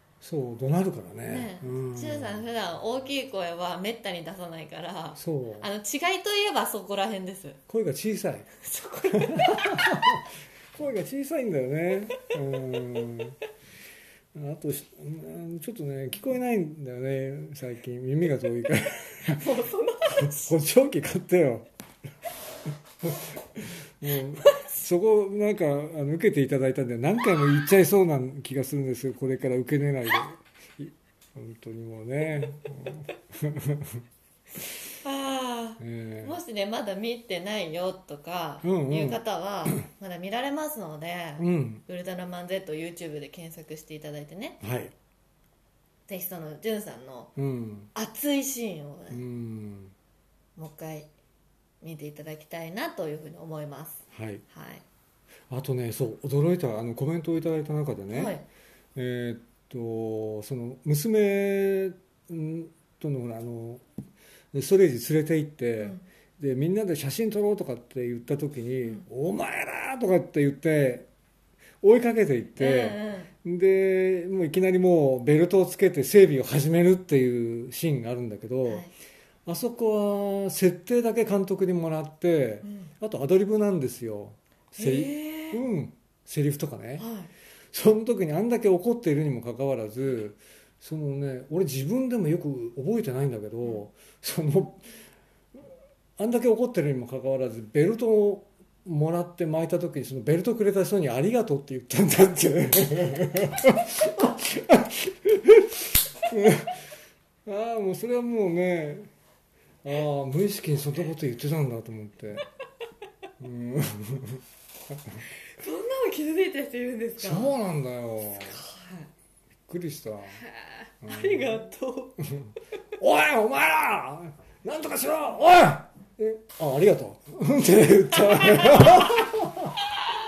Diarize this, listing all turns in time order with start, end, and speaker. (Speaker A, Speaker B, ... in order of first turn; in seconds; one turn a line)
Speaker A: 0.2-2.5
Speaker B: 1.3-7.6
Speaker A: 5.2-5.7
Speaker A: 7.7-8.5
Speaker B: 8.6-10.1
Speaker A: 9.1-13.4
Speaker A: 14.3-19.5
Speaker B: 19.4-20.5
Speaker A: 20.1-21.7
Speaker A: 23.0-34.0
Speaker B: 35.0-44.6
Speaker A: 35.8-36.4
Speaker A: 38.6-39.9
Speaker A: 41.4-41.8
Speaker A: 44.6-44.9
Speaker B: 46.1-47.3
Speaker A: 47.4-47.9
Speaker B: 48.0-49.2
Speaker A: 49.1-49.9
Speaker B: 50.6-51.1
Speaker B: 51.8-54.8
Speaker A: 54.1-54.4
Speaker A: 55.5-58.4
Speaker B: 58.1-58.5
Speaker A: 59.0-63.8
Speaker A: 64.5-71.1
Speaker B: 65.8-66.0
Speaker A: 71.8-78.9
Speaker B: 72.6-73.3
Speaker B: 78.7-78.9
Speaker A: 79.5-87.1
Speaker B: 82.6-82.9
Speaker B: 84.8-85.6
Speaker B: 87.0-87.3
Speaker A: 87.7-94.8
Speaker A: 96.2-106.8
Speaker A: 107.5-109.1
Speaker A: 109.8-112.5
Speaker A: 113.4-115.2
Speaker B: 115.6-117.5
Speaker A: 117.2-118.6
Speaker B: 118.3-119.1
Speaker A: 119.7-120.4
Speaker B: 120.4-122.2
Speaker A: 121.0-121.7
Speaker A: 122.3-129.7
Speaker B: 128.2-129.2